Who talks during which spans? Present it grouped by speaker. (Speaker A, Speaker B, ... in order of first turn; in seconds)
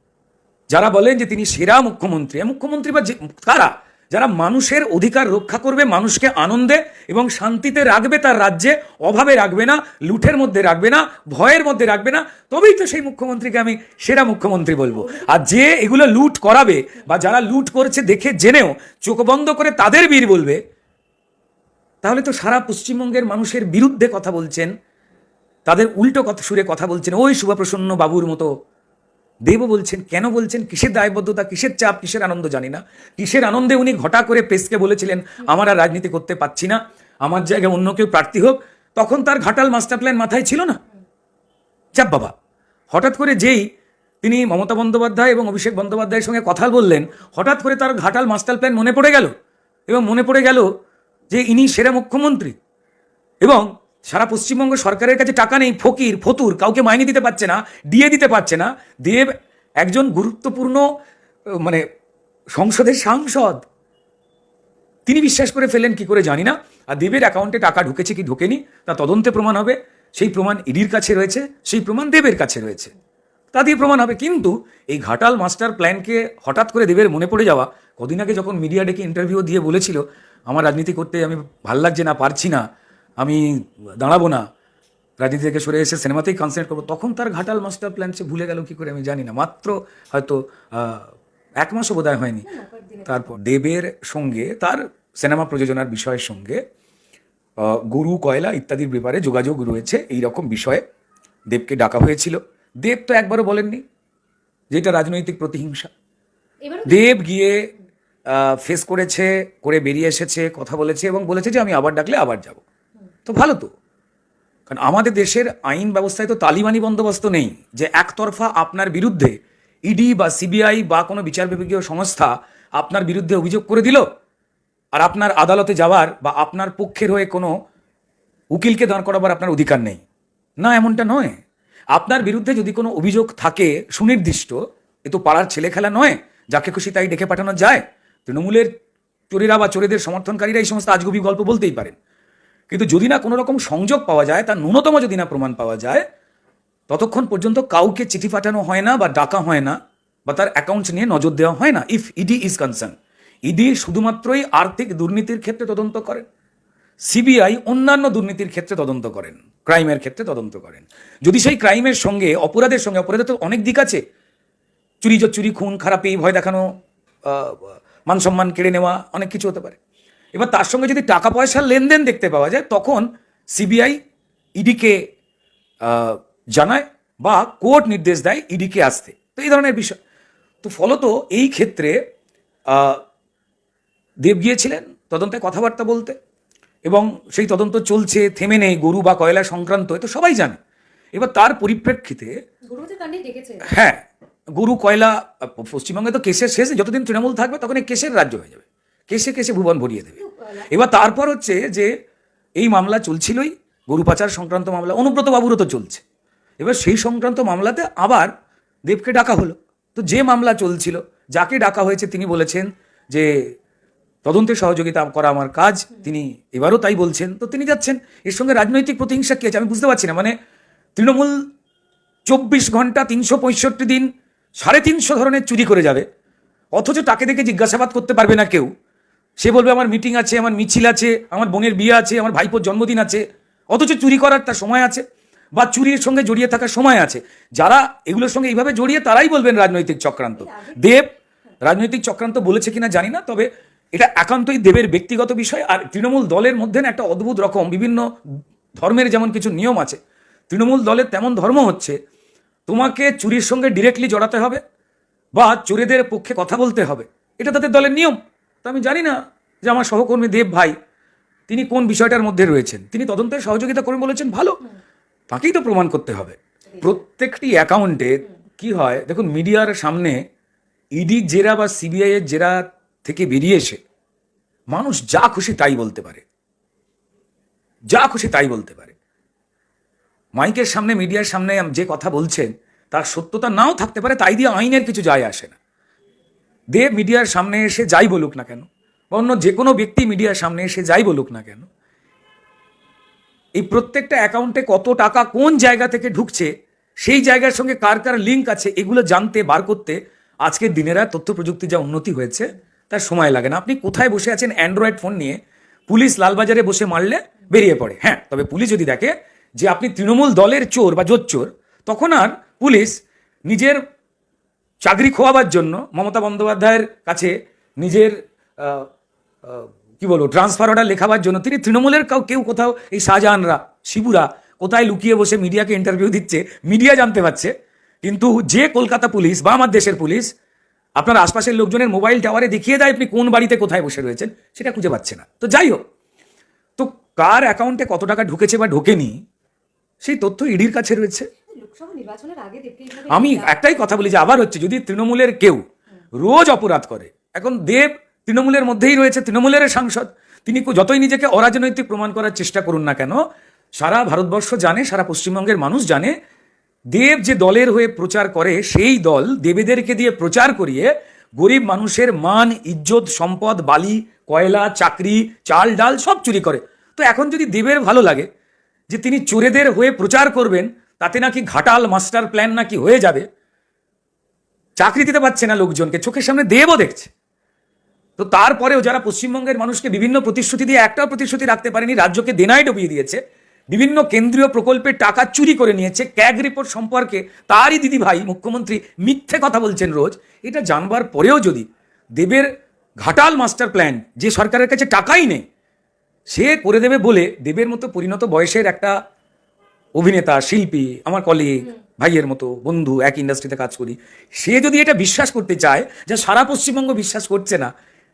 Speaker A: 0.7-20.6, 22.0-24.7, 25.6-28.5, 29.5-40.8, 42.0-42.3, 42.9-43.6, 44.2-49.3, 49.9-50.7, 51.3-52.5, 53.4-60.8, 61.5-61.8, 62.5-63.6, 65.1-72.9, 73.5-82.6, 83.2-84.5, 85.2-92.5, 93.1-96.6, 97.6-100.8, 101.5-103.8, 104.7-105.9, 106.9-107.7, 108.3-112.6, 113.3-113.7, 114.7-124.0, 125.0-127.5, 128.5-130.0, 130.6-131.4, 131.9-138.7, 139.3-141.9, 142.7-146.0, 146.9-156.2, 157.0-164.0, 165.0-166.7, 167.2-169.8, 170.3-174.0, 174.6-175.0, 175.8-180.0, 180.6-182.0, 182.7-183.0, 184.2-186.1, 186.8-190.6, 191.1-192.3, 193.6-194.0, 194.5-201.9, 202.6-206.0, 206.6-208.3, 208.9-213.4, 214.2-220.3, 220.9-221.4, 222.2-224.1, 224.6-226.0, 226.7-228.7, 229.4-235.0, 235.6-241.1, 241.6-248.0, 248.8-252.0, 252.7-254.6, 255.3-260.7, 261.5-264.6, 265.3-270.2, 270.9-273.8, 274.7-276.2, 277.9-278.9, 280.4-285.6, 286.7-291.7, 293.6-296.5, 297.0-313.8, 314.8-318.9, 319.4-330.3, 331.0-335.8, 336.8-339.2, 340.0-341.3, 343.1-345.6, 346.2-353.2, 353.8-356.1, 356.9-368.3, 368.9-373.2, 374.8-377.1, 378.2-383.2, 383.7-391.7, 392.2-392.5, 393.0-395.4, 396.3-398.9, 400.0-407.7
Speaker B: 15.0-15.3, 92.5-93.3, 106.6-107.2, 192.7-193.7, 200.2-200.7, 240.4-240.9, 341.5-343.6